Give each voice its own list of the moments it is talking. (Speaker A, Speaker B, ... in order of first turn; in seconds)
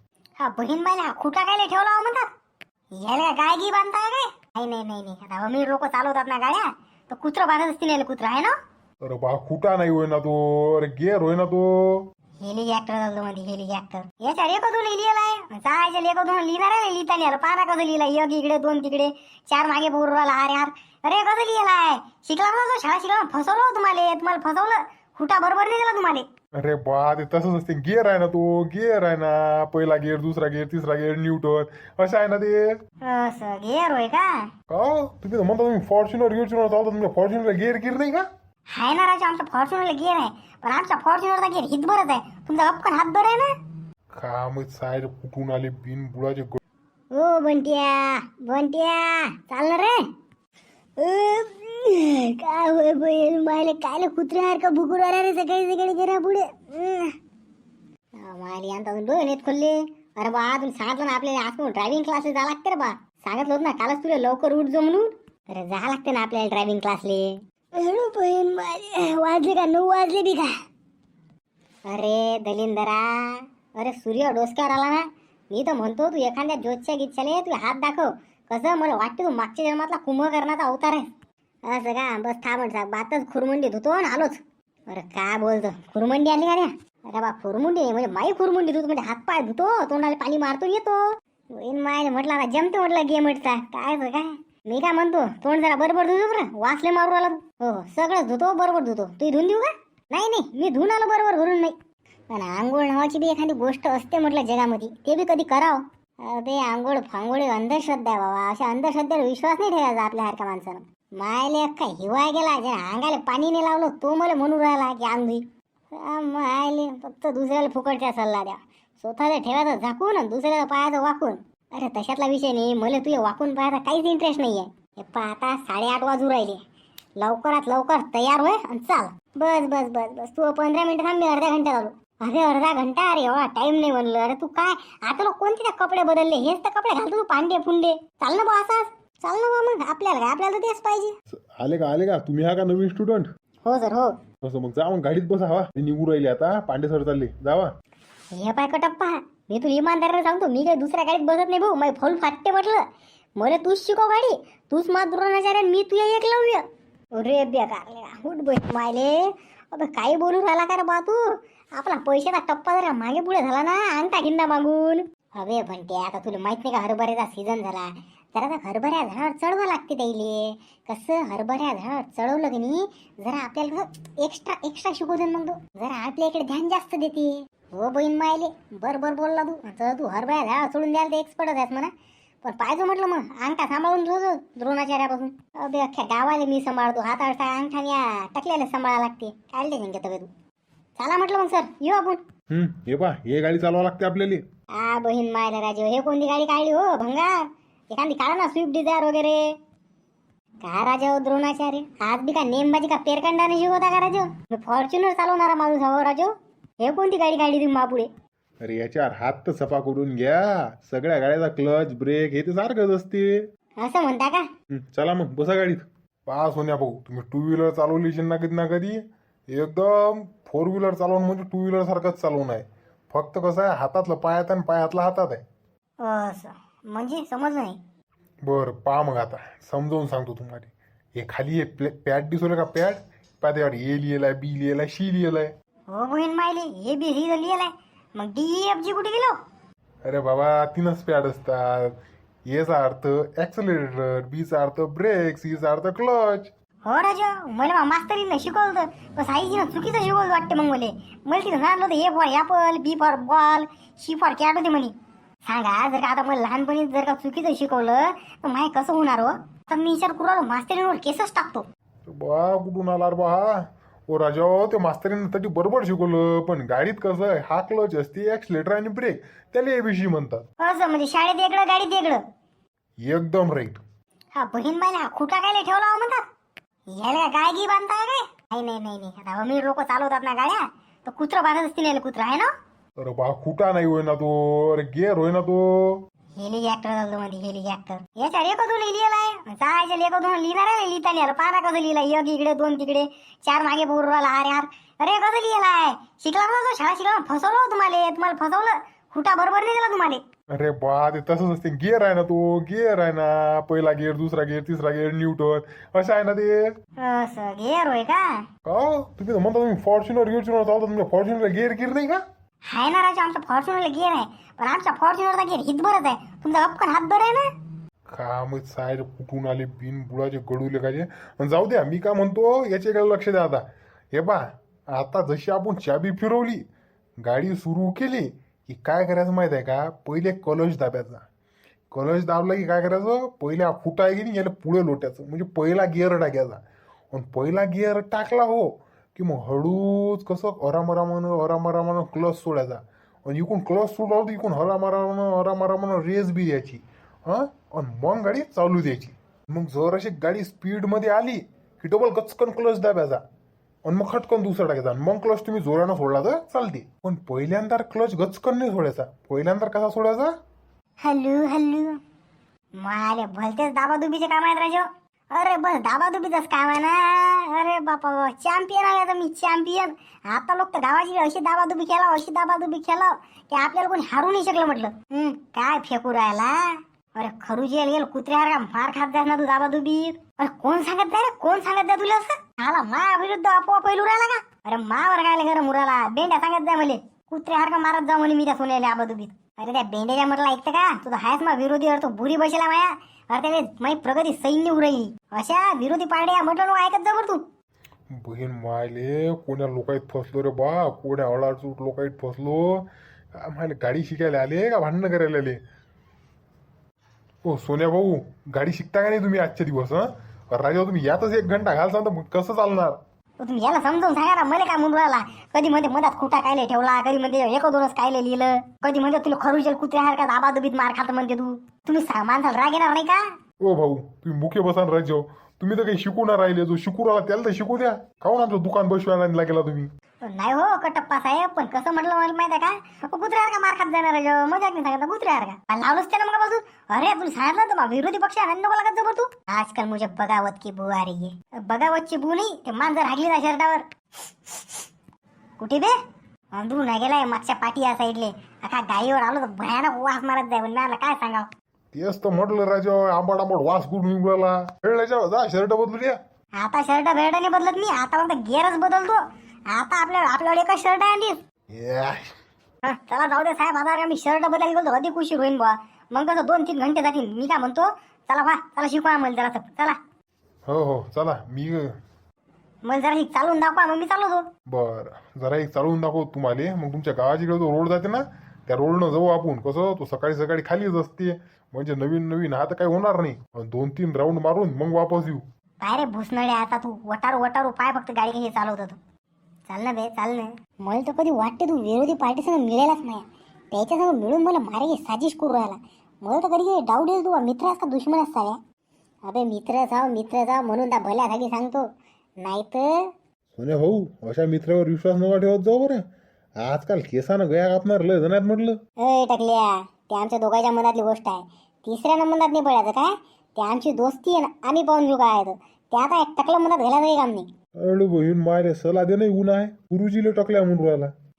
Speaker A: 0.4-2.2, 3.0-8.5, 12.4-26.2, 33.0-34.4, 38.8-43.5, 47.1-50.0, 51.0-57.1, 58.2-70.5, 71.9-81.1, 81.7-91.0, 91.5-101.8, 102.3-126.6, 127.2-141.1, 143.6-144.1, 148.4-152.8, 153.4-156.6, 157.2-181.9, 182.4-190.3, 191.0-192.2, 194.8-197.3, 197.9-199.4, 200.6-208.1, 213.8-214.4, 226.0-227.8, 235.9-239.3, 246.8-254.9, 255.4-261.6, 270.6-272.2, 274.4-276.2, 276.9-282.5, 286.4-300.2, 307.0-308.4, 312.7-317.5, 361.0-362.0, 362.8-397.4, 413.4-423.2, 430.3-443.9, 444.5-444.7, 445.6-445.9, 446.5-451.5, 456.6-461.3, 462.9-470.0, 472.9-474.4, 485.8-489.0, 489.7-498.6, 499.3-501.8, 502.4-503.0, 509.0-517.5
Speaker B: 9.0-12.0, 26.6-32.7, 34.7-38.2, 44.2-46.6, 141.6-143.3, 144.4-147.7, 192.5-194.4, 208.6-213.4, 214.7-225.4, 228.4-235.5, 240.1-241.9, 242.5-246.5, 262.1-270.4, 273.0-273.8, 283.0-285.9, 300.5-306.7, 308.6-312.2, 318.1-326.6, 327.2-331.2, 331.9-336.6, 337.1-353.2, 353.8-360.3, 398.1-402.8, 403.4-405.6, 407.4-413.0, 423.6-429.9, 451.9-456.2, 461.7-462.3, 470.7-471.9, 474.7-485.4, 503.6-506.0, 506.6-508.8, 517.8-521.1